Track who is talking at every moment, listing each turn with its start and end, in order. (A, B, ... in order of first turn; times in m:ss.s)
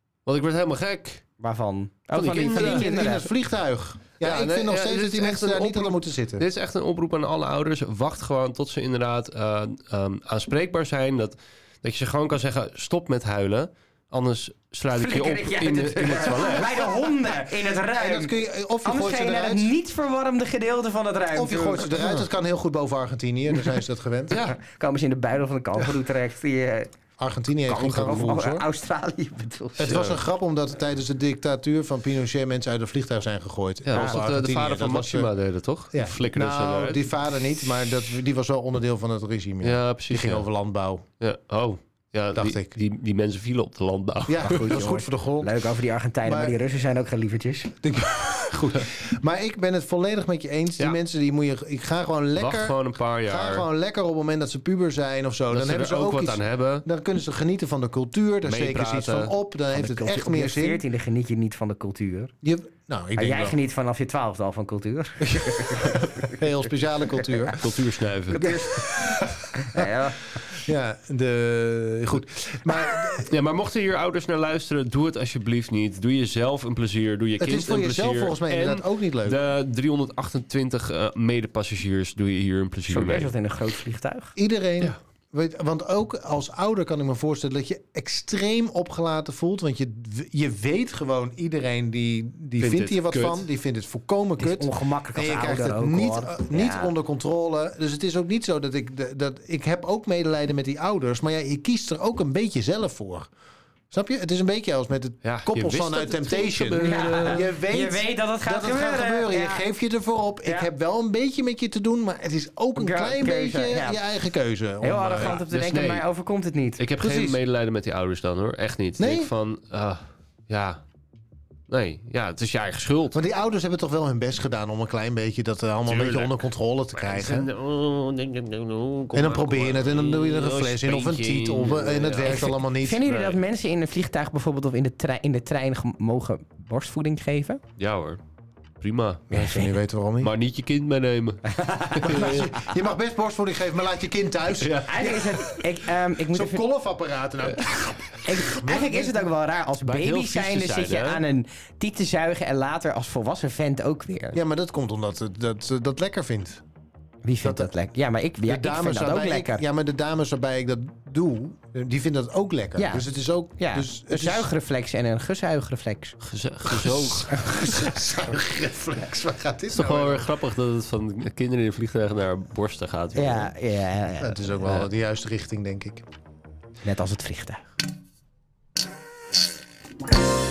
0:00.2-0:01.2 A
0:01.4-0:03.3 B
0:02.1-0:03.2 A
0:02.6-0:06.4 C
0:04.2-0:16.8 A
0:14.9-0:22.1 B
0:16.4-0:16.9 C
0:18.0-0:19.7 C
0:21.3-0:24.4 C
0:24.3-0:24.6 A
0:24.4-0:26.9 B
0:27.2-0:28.6 C
0:27.7-0:30.0 B
0:29.8-0:35.3 C
0:29.8-0:30.2 A
0:33.8-0:37.0 A
0:35.9-0:41.0 C
0:39.6-0:40.4 A
0:41.2-0:44.8 A
0:42.3-0:42.7 C
0:44.3-0:45.6 C
0:44.4-0:47.7 B
0:46.2-0:46.6 C
0:47.8-1:00.8 C
0:52.4-0:53.6 A
0:55.5-0:56.8 A
0:58.4-0:59.3 A
0:59.7-1:02.3 B
1:02.4-1:03.6 C
1:03.2-1:06.4 B
1:05.2-1:13.3 C
1:07.6-1:08.4 A
1:08.3-1:10.4 B
1:13.2-1:23.3 A
1:17.4-1:19.4 C
1:22.9-1:24.3 B
1:24.4-1:43.3 C
1:32.6-1:33.4 A
1:34.4-1:36.9 B
1:43.9-1:55.4 C
1:45.2-1:47.4 A
1:46.8-1:49.6 B
1:50.4-1:50.7 B
1:52.8-1:54.0 B
1:54.8-1:56.8 B
1:55.2-1:56.0 A
1:56.8-2:00.8 A
1:57.0-1:57.4 C
1:59.0-1:59.3 C
2:01.7-2:03.2 A
2:03.1-2:07.5 C
2:05.9-2:06.4 A
2:07.0-2:12.5 A
2:09.1-2:13.0 C
2:12.2-2:17.6 B
2:13.0-2:13.4 A
2:17.8-2:18.2 A
2:18.8-2:19.4 A
2:19.3-2:20.3 C
2:20.2-2:22.6 A
2:21.5-2:22.4 B
2:22.0-2:25.5 C
2:24.6-2:25.4 A
2:24.9-2:26.6 B
2:26.3-2:29.3 C
2:28.2-2:34.4 B
2:29.8-2:31.2 A
2:34.3-2:36.6 C
2:37.2-2:39.6 B
2:37.4-2:37.7 C
2:38.4-2:44.5 C
2:42.8-2:43.0 B
2:43.6-2:46.2 B
2:46.2-2:47.4 A
2:46.7-2:50.3 C
2:47.3-2:48.0 B
2:49.7-2:53.5 A
2:53.1-2:54.5 B
2:54.2-2:56.0 C
2:56.8-2:57.6 B